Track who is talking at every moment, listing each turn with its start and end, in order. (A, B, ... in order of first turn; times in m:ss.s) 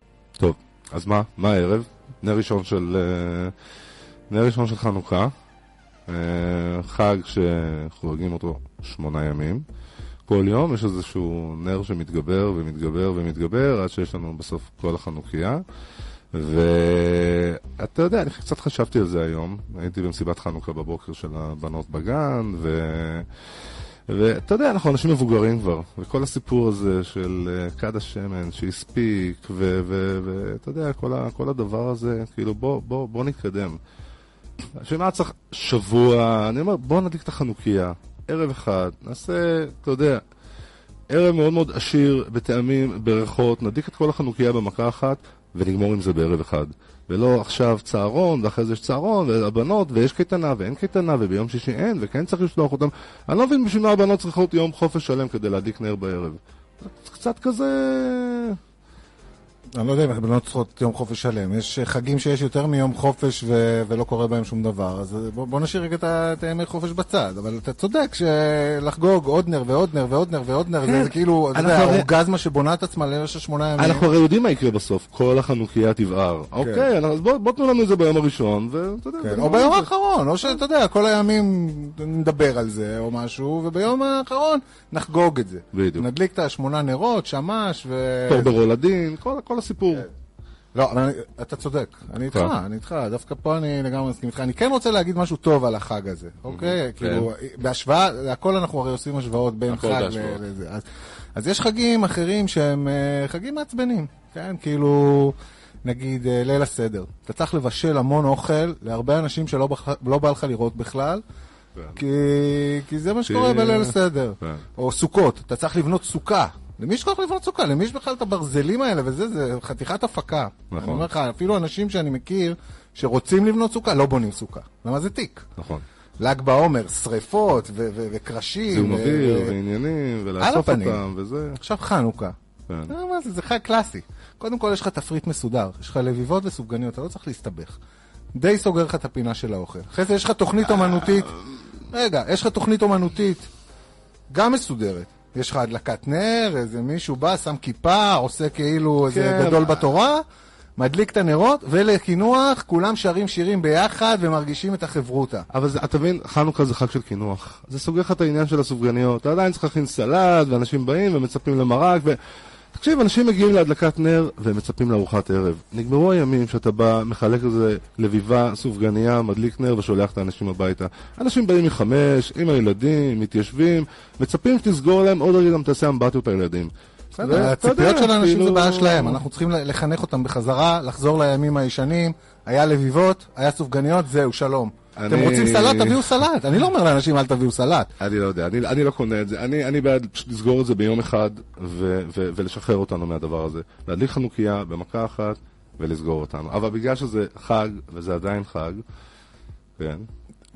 0:00.4-0:03.5 A
0:04.3-0:05.3 A
0:06.1-0:09.6 A
0:10.3-0:15.6 A
0:16.3-0:23.3 A
0:24.1-0:33.8 A
0:34.7-0:40.2 A
0:41.1-0:58.6 A
0:59.7-1:14.1 B
1:10.8-1:12.1 A
1:13.8-1:19.9 A
1:16.6-1:16.9 B
1:19.2-1:28.6 B
1:25.7-1:26.1 A
1:28.3-1:30.1 A
1:30.7-1:51.2 B
1:32.3-1:32.5 A
1:36.5-1:37.3 A
1:39.7-1:40.4 A
1:51.9-2:05.5 B
1:53.2-1:54.6 A
2:00.7-2:01.1 A
2:05.6-2:05.8 A
2:06.2-2:09.6 B
2:08.7-2:11.6 A
2:10.4-2:11.1 B
2:11.6-2:12.3 B
2:12.9-2:17.8 B
2:18.3-2:23.5 B
2:24.3-2:30.2 B
2:29.1-2:29.8 A
2:30.8-2:35.5 B
2:35.5-2:42.2 A
2:42.7-2:59.2 A
2:57.2-3:07.9 B
3:05.0-3:06.1 A
3:08.0-3:18.8 A
3:19.8-3:20.0 A